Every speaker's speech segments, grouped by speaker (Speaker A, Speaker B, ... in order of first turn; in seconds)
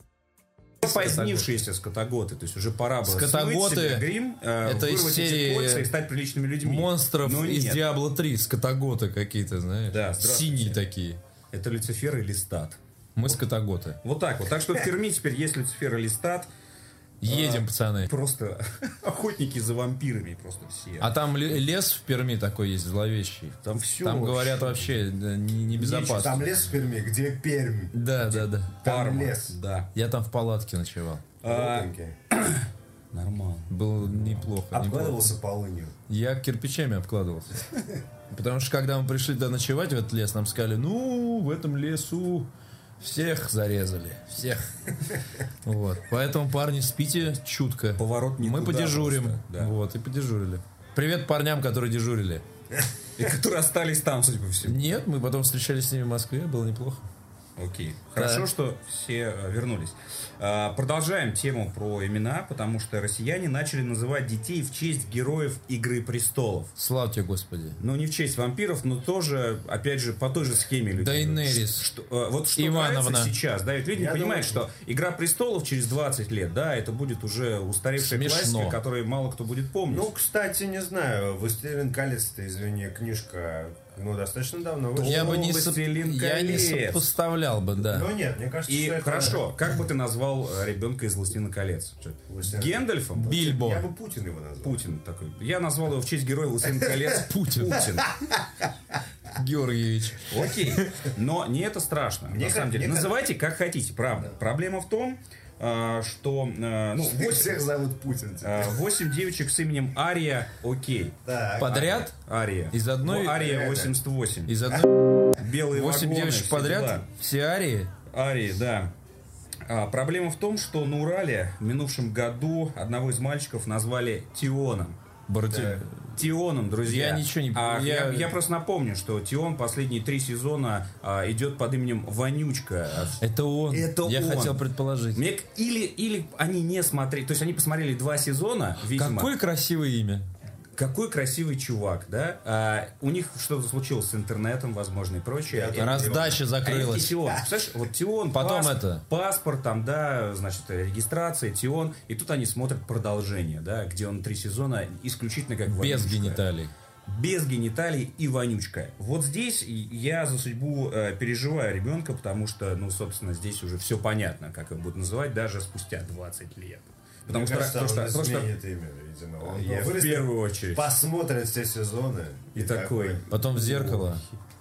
Speaker A: 0.8-7.8, 9.9-10.8, 11.5-12.8, 14.0-16.5, 17.2-21.1, 23.6-24.9, 25.9-26.5, 28.2-29.9, 31.4-34.4, 48.0-49.7, 53.2-54.8, 57.6-66.7, 67.8-80.1, 84.9-87.1, 88.7-93.5, 94.6-98.1, 100.3-107.6, 108.4-114.5, 115.3-117.0, 118.1-118.9, 119.7-125.0, 126.2-134.6, 135.1-139.3, 140.7-156.4, 157.1-168.5, 169.4-170.8, 172.5-174.2
Speaker B: 0.8-1.3, 3.0-4.1, 4.6-5.9, 6.6-11.2, 13.2-14.0, 17.2-18.1, 21.0-26.5, 27.9-28.7, 29.9-31.2, 33.7-35.3, 36.1-37.7, 38.3-44.7, 45.6-52.4, 54.6-57.1, 58.1-58.5, 66.8-67.8, 71.0-71.8, 72.5-73.3, 78.0-78.8, 85.0-88.1, 93.2-93.8, 97.3-97.8, 99.3-100.9, 111.6-112.1, 112.7-113.5, 114.5-117.9, 125.3-126.2, 126.8-128.3, 133.2-135.2, 138.9-140.3, 145.7-147.2, 148.3-149.0, 155.7-156.7, 173.3-174.2
Speaker C: 25.8-27.9, 28.8-29.6, 31.4-32.1, 34.7-35.9, 73.9-74.6, 79.9-85.4, 87.8-89.4, 92.3-94.8, 102.3-103.2, 107.0-108.8, 111.2-111.8, 113.3-113.9, 125.5-125.8, 145.5-146.4, 167.3-173.2